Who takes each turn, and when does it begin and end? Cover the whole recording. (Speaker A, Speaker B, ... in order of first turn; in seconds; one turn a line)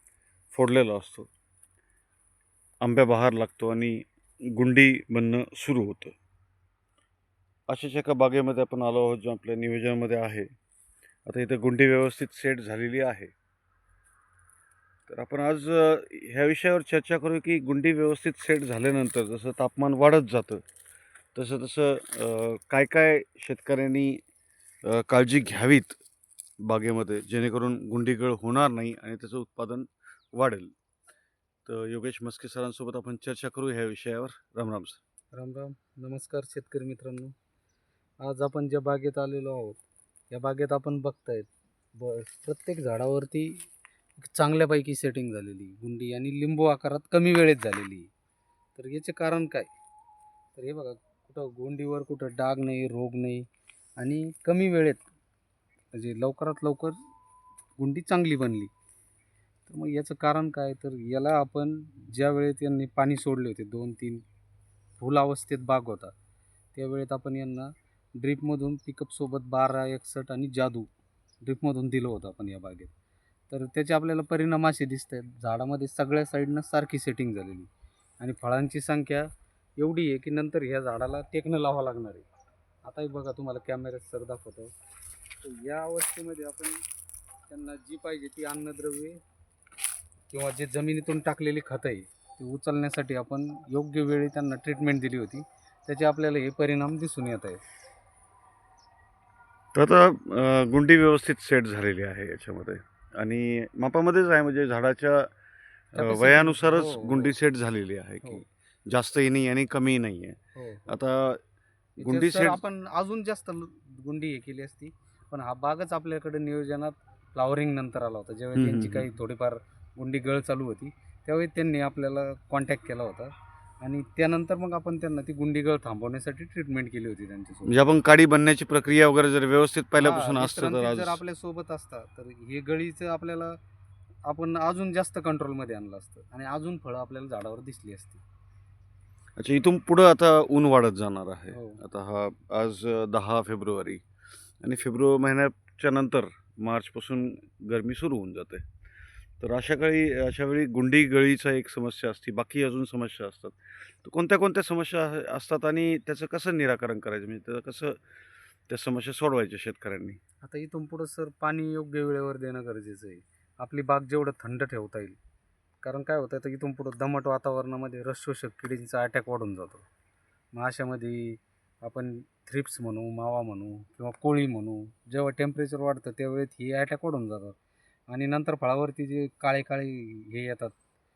Speaker A: 0.5-1.3
Speaker A: 2.8-6.2
Speaker A: 7.7-10.5
Speaker A: 11.3-13.3
Speaker A: 15.1-20.6
Speaker A: 21.4-24.2
Speaker A: 24.8-26.0
Speaker A: 26.7-30.7
Speaker A: 31.7-35.0
Speaker B: 35.3-37.3
Speaker B: 38.2-43.7
Speaker B: 44.2-48.1
Speaker B: 48.8-49.7
Speaker B: 50.6-53.5
Speaker B: 54.0-55.0
Speaker B: 55.9-57.0
Speaker B: 57.8-58.7
Speaker B: 59.7-64.2
Speaker B: 65.0-66.1
Speaker B: 66.7-70.9
Speaker B: 71.4-72.9
Speaker B: 73.5-77.7
Speaker B: 78.2-82.2
Speaker B: 82.8-84.7
Speaker B: 85.4-86.8
Speaker B: 87.5-89.2
Speaker B: 90.3-97.6
Speaker A: 99.7-105.3
Speaker B: 105.9-107.4
Speaker A: 106.0-111.4
Speaker B: 110.5-110.9
Speaker B: 112.0-127.8
Speaker A: 112.0-112.6
Speaker A: 118.5-119.1
Speaker A: 127.7-131.2
Speaker B: 130.0-133.6
Speaker B: 134.3-138.2
Speaker A: 139.4-144.0
Speaker B: 141.5-141.8
Speaker A: 144.6-148.7
Speaker A: 149.4-158.0
Speaker A: 158.7-160.2
Speaker B: 160.4-165.2
Speaker B: 165.8-169.8
Speaker B: 170.5-177.6
Speaker B: 178.1-180.7